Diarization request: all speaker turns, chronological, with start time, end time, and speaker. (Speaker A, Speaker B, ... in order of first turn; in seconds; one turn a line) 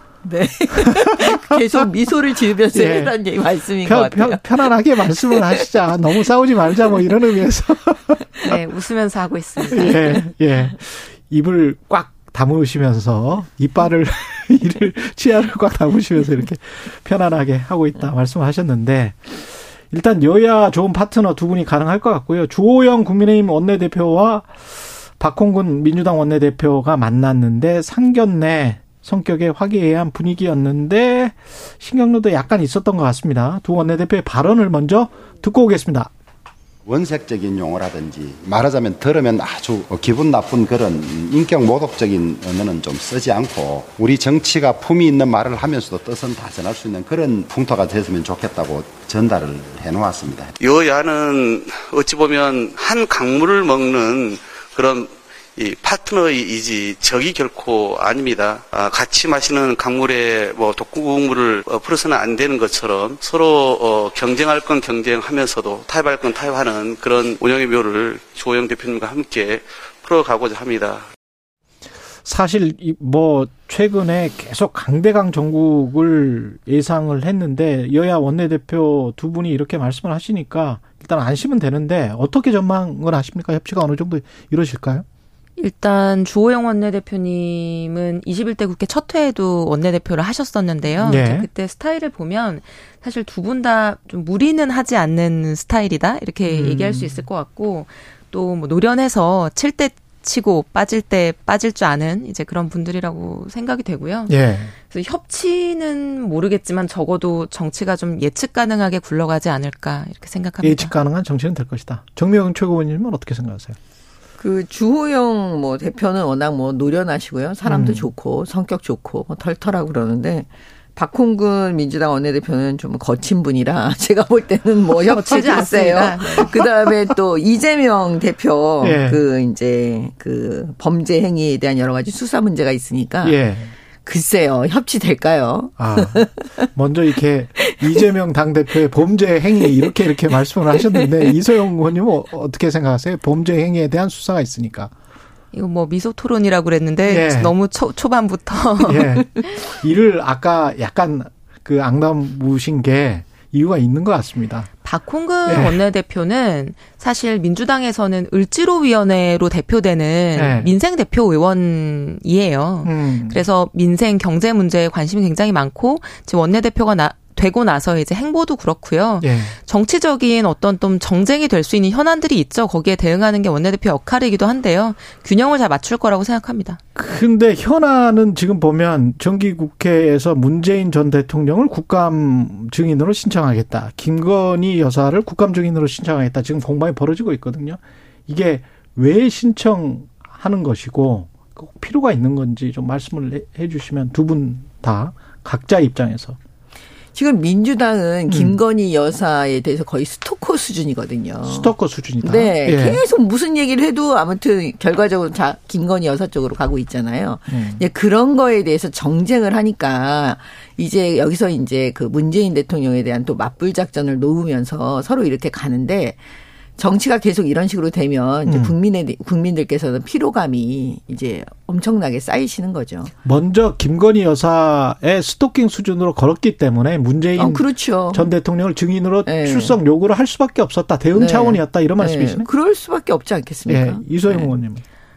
Speaker A: 0.2-5.7
Speaker B: 0.8-1.1
Speaker B: 2.7-3.1
Speaker B: 3.8-8.4
Speaker C: 8.5-10.3
Speaker B: 9.7-36.1
Speaker D: 36.8-50.5
Speaker E: 50.6-71.0
Speaker B: 72.2-85.0
Speaker C: 85.6-111.0
Speaker B: 91.0-91.5
Speaker B: 96.5-97.2
Speaker B: 104.3-104.7
Speaker B: 110.6-113.8
Speaker A: 114.4-133.3
Speaker B: 117.7-118.1
Speaker C: 125.0-126.6
Speaker B: 128.8-129.2
Speaker B: 133.2-133.7
Speaker A: 134.0-136.7
Speaker B: 135.8-144.9
Speaker A: 137.6-138.0
Speaker C: 145.5-149.6
Speaker B: 147.1-147.5
Speaker B: 148.9-154.7
Speaker C: 154.8-176.8
Speaker B: 155.4-155.8
Speaker B: 160.3-160.7
Speaker B: 162.8-163.4
Speaker B: 169.2-169.6
Speaker B: 176.9-196.4
Speaker A: 197.1-216.2
Speaker B: 198.3-198.6
Speaker B: 201.4-203.0
Speaker B: 207.5-207.8
Speaker A: 216.8-223.1
Speaker B: 218.5-218.7
Speaker B: 223.2-232.5
Speaker A: 227.3-228.3
Speaker A: 229.2-229.8
Speaker A: 231.1-234.5
Speaker B: 233.7-234.8